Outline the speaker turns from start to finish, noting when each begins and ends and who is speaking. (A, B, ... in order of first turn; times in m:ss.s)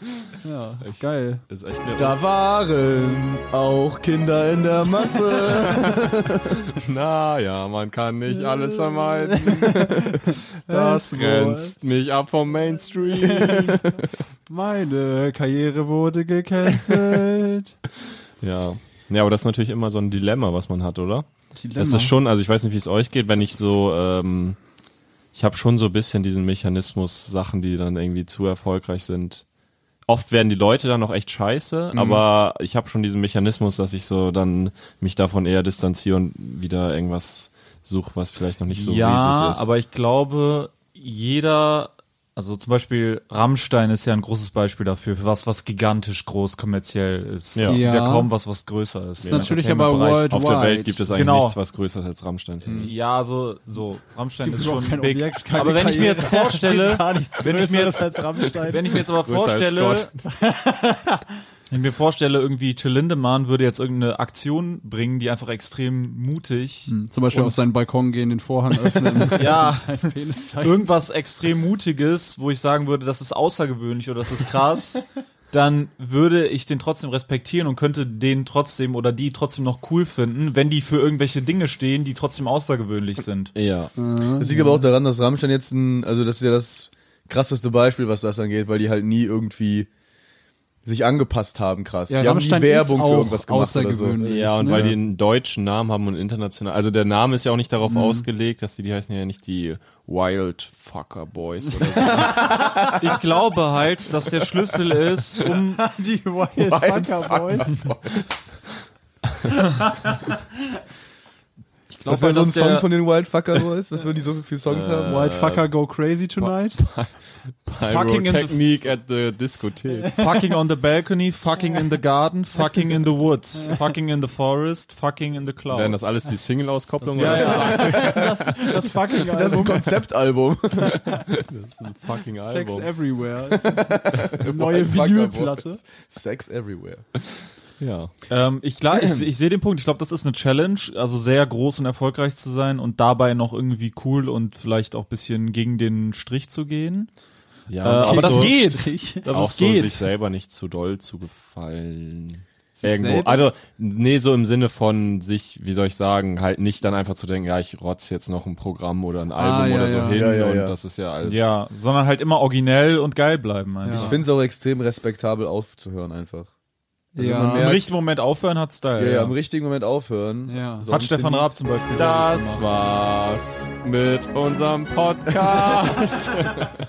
0:00.4-0:01.4 A
0:00.8-0:02.2 B
0:01.9-0:06.6 C
0:05.4-0:06.0 B
0:06.7-0:13.9 B
0:08.3-0:11.8 A
0:13.2-0:13.7 A
0:14.5-0:17.8 A
0:18.4-0:24.6 B
0:21.5-0:22.1 A
0:25.4-0:29.4 B
0:30.0-0:39.6 B
0:38.7-0:50.3 D
0:47.5-0:47.8 B
0:47.7-0:48.3 A
0:49.2-0:52.9 B
0:49.3-0:51.0 A
0:51.1-0:51.6 D
0:52.6-0:52.9 C
0:52.8-1:00.1 D
0:54.4-0:59.0 A
0:59.2-1:00.2 B
1:00.3-1:01.2 A
1:01.7-1:07.6 D
1:06.9-1:10.9 A
1:09.2-1:10.0 D
1:10.6-1:23.5 D
1:23.5-1:23.9 B
1:24.0-1:24.8 A
1:24.4-1:29.9 C
1:30.8-1:35.0 C
1:32.1-1:34.9 A
1:34.2-1:42.7 B
1:37.9-1:38.2 A
1:41.8-1:43.0 A
1:42.9-1:45.8 D
1:45.7-1:47.8 A
1:46.6-1:48.3 C
1:51.9-1:52.9 D
1:52.0-1:55.2 C
1:54.6-1:55.7 B
1:55.1-1:56.8 A
1:56.4-2:00.2 B
1:57.8-1:58.6 D
2:00.1-2:06.2 D
2:05.7-2:09.1 B
2:07.1-2:07.8 D
2:07.1-2:09.9 A
2:09.2-2:11.0 C
2:10.9-2:12.9 B
2:12.4-2:15.8 A
2:13.5-2:17.0 C
2:17.8-2:18.1 B
2:18.3-2:27.1 D
2:27.7-2:28.6 B
2:27.8-2:30.0 D
2:28.0-2:29.2 A
2:29.2-2:41.6 B
2:32.8-2:33.5 A
2:39.4-2:40.2 A
2:40.1-2:40.8 C
2:41.2-2:44.2 D
2:43.8-2:44.2 A
2:43.9-2:46.5 C
2:47.2-2:47.9 C
2:47.2-2:47.7 A
2:47.5-2:49.4 D
2:49.0-2:51.5 C
2:50.5-2:50.9 A
2:50.9-2:52.6 D
2:51.9-2:56.8 B